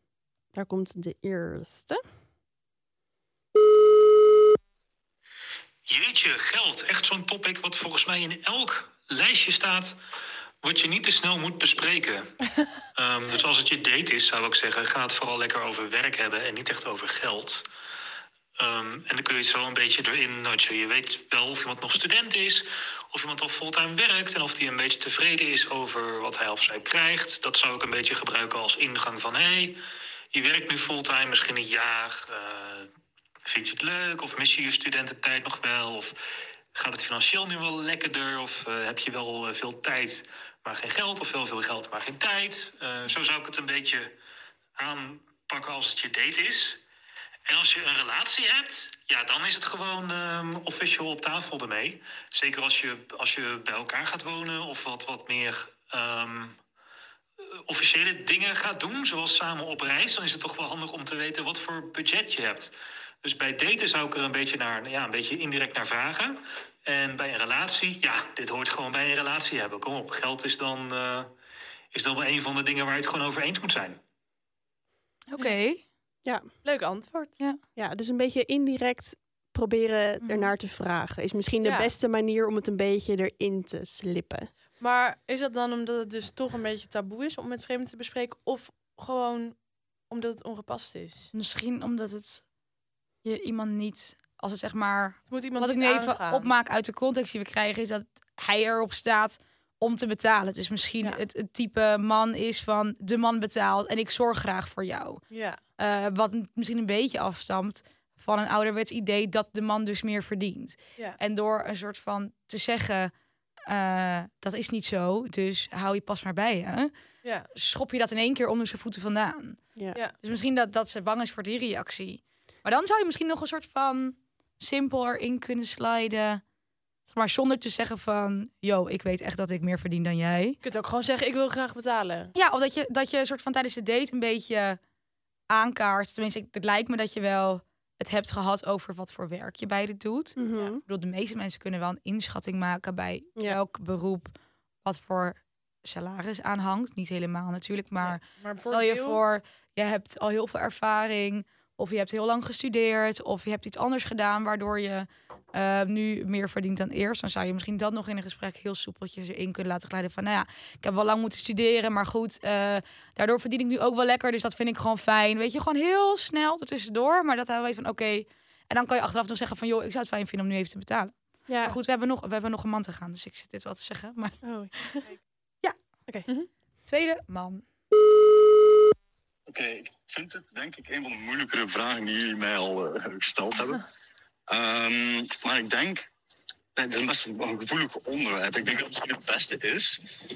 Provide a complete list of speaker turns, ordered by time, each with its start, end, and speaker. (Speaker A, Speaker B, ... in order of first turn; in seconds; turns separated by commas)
Speaker A: 0.5-2.0, Speaker B: 5.8-10.0, Speaker B: 10.6-12.3, Speaker B: 12.9-17.6, Speaker B: 18.6-29.8, Speaker B: 30.3-32.9, Speaker B: 33.5-36.2, Speaker B: 36.7-44.1, Speaker B: 44.8-46.8, Speaker B: 47.5-56.6, Speaker B: 57.7-71.3, Speaker B: 71.9-74.0, Speaker C: 75.3-75.8, Speaker D: 76.6-77.4, Speaker A: 77.8-84.5, Speaker C: 80.2-80.5, Speaker D: 81.6-81.9, Speaker D: 84.8-89.6, Speaker D: 90.1-91.3, Speaker C: 91.3-92.4, Speaker C: 93.2-105.2, Speaker D: 95.3-96.5, Speaker D: 105.3-105.6, Speaker C: 105.8-113.1, Speaker C: 113.7-116.9, Speaker C: 117.5-119.6, Speaker C: 120.2-126.4, Speaker C: 127.1-130.6, Speaker D: 130.6-132.3, Speaker C: 132.3-134.8, Speaker C: 135.5-144.3, Speaker A: 140.4-140.8, Speaker C: 144.8-174.4, Speaker D: 148.0-149.2, Speaker A: 171.5-171.8, Speaker A: 174.4-175.2, Speaker C: 176.8-177.6, Speaker E: 179.5-183.8, Speaker E: 184.5-186.0, Speaker E: 186.8-190.0